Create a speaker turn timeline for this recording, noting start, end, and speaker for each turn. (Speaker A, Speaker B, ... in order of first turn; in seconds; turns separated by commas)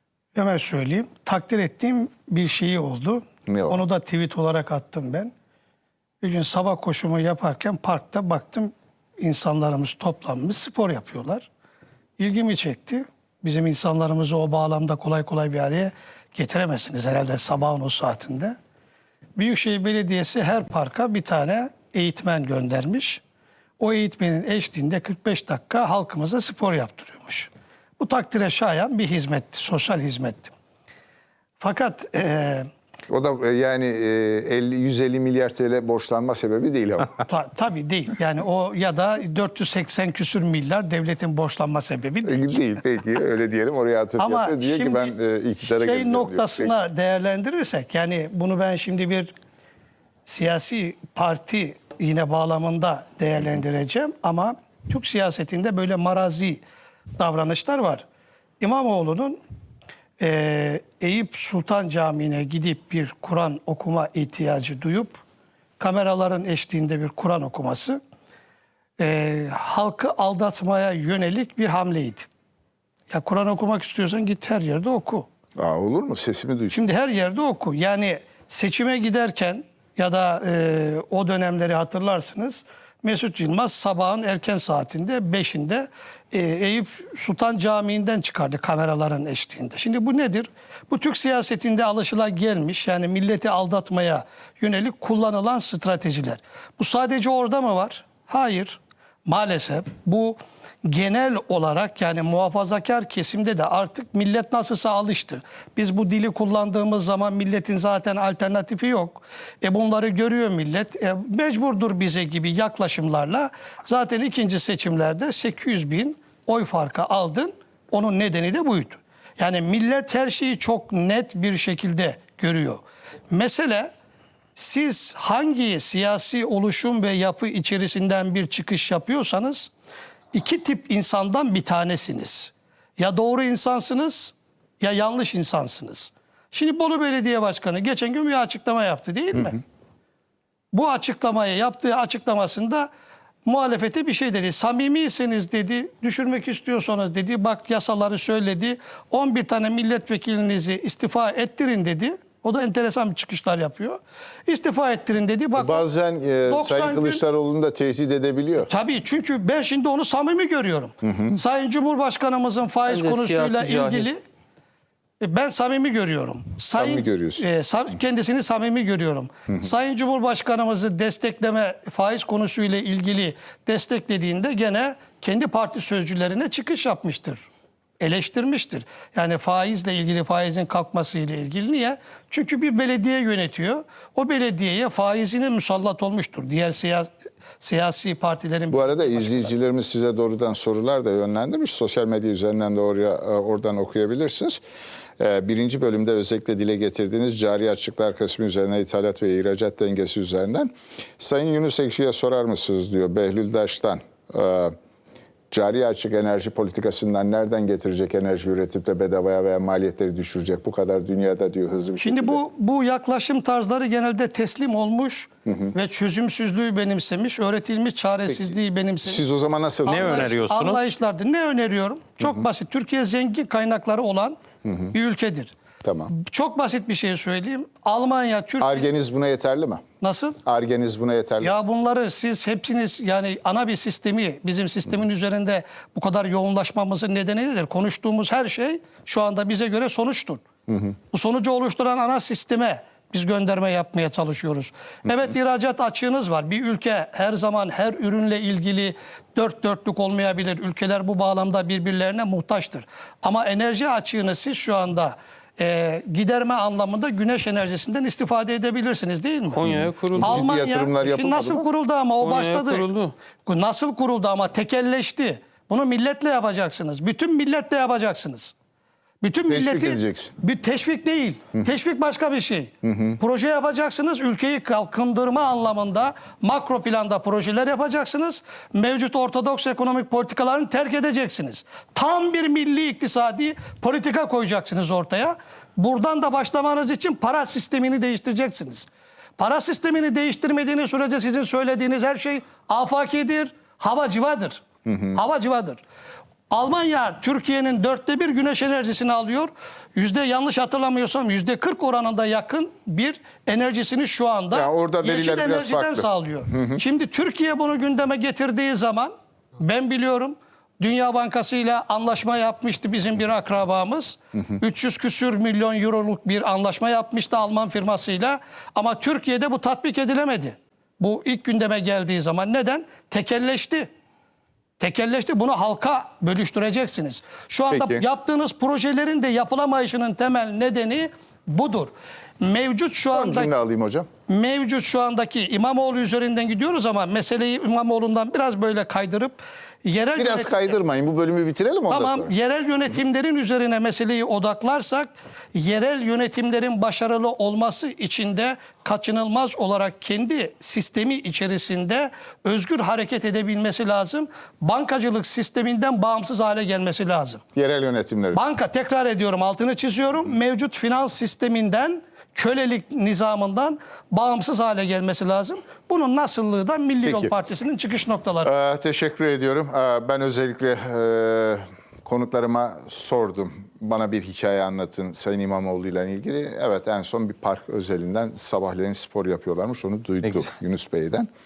Speaker A: 0.3-5.3, Speaker B: 3.5-3.8, Speaker A: 6.2-11.5, Speaker A: 12.2-18.6, Speaker A: 19.4-23.2, Speaker A: 23.8-30.5, Speaker A: 31.6-32.7, Speaker B: 33.1-37.2, Speaker A: 37.3-42.6, Speaker B: 42.2-46.7, Speaker A: 44.2-49.3, Speaker A: 50.3-56.6, Speaker A: 57.2-58.0, Speaker A: 58.6-59.4, Speaker A: 60.2-65.2, Speaker A: 65.8-68.0, Speaker A: 69.0-72.3, Speaker A: 73.1-75.3, Speaker B: 75.6-76.8, Speaker A: 76.7-123.9, Speaker A: 124.6-129.7, Speaker A: 130.3-139.6, Speaker A: 140.7-142.9, Speaker A: 143.4-155.8, Speaker B: 155.6-158.7, Speaker A: 156.4-157.2, Speaker A: 158.7-164.2, Speaker B: 161.0-161.4, Speaker C: 162.9-164.1, Speaker A: 165.2-177.4, Speaker B: 166.8-167.4, Speaker A: 178.0-189.5, Speaker B: 188.7-194.6, Speaker B: 195.2-204.8, Speaker B: 205.5-212.4, Speaker A: 212.0-219.2, Speaker B: 219.1-220.4, Speaker C: 219.9-220.8, Speaker A: 219.9-224.4, Speaker A: 224.9-225.5, Speaker B: 225.8-226.1, Speaker A: 226.1-228.9, Speaker B: 228.6-229.8, Speaker A: 230.0-230.4, Speaker B: 230.5-231.5, Speaker A: 231.4-240.4, Speaker A: 241.1-259.7, Speaker C: 259.6-260.4, Speaker B: 260.2-261.6, Speaker A: 260.2-268.6, Speaker C: 262.2-263.1, Speaker A: 269.2-295.8, Speaker B: 269.5-270.3, Speaker B: 272.8-273.2, Speaker B: 294.9-295.1, Speaker A: 296.5-323.9, Speaker B: 304.5-306.8, Speaker A: 324.8-333.5, Speaker B: 327.7-328.0, Speaker B: 333.1-334.1, Speaker A: 334.3-340.8, Speaker B: 340.2-342.3, Speaker A: 341.9-357.4, Speaker B: 357.6-358.4, Speaker A: 358.3-368.5, Speaker B: 367.1-367.3, Speaker B: 368.4-381.3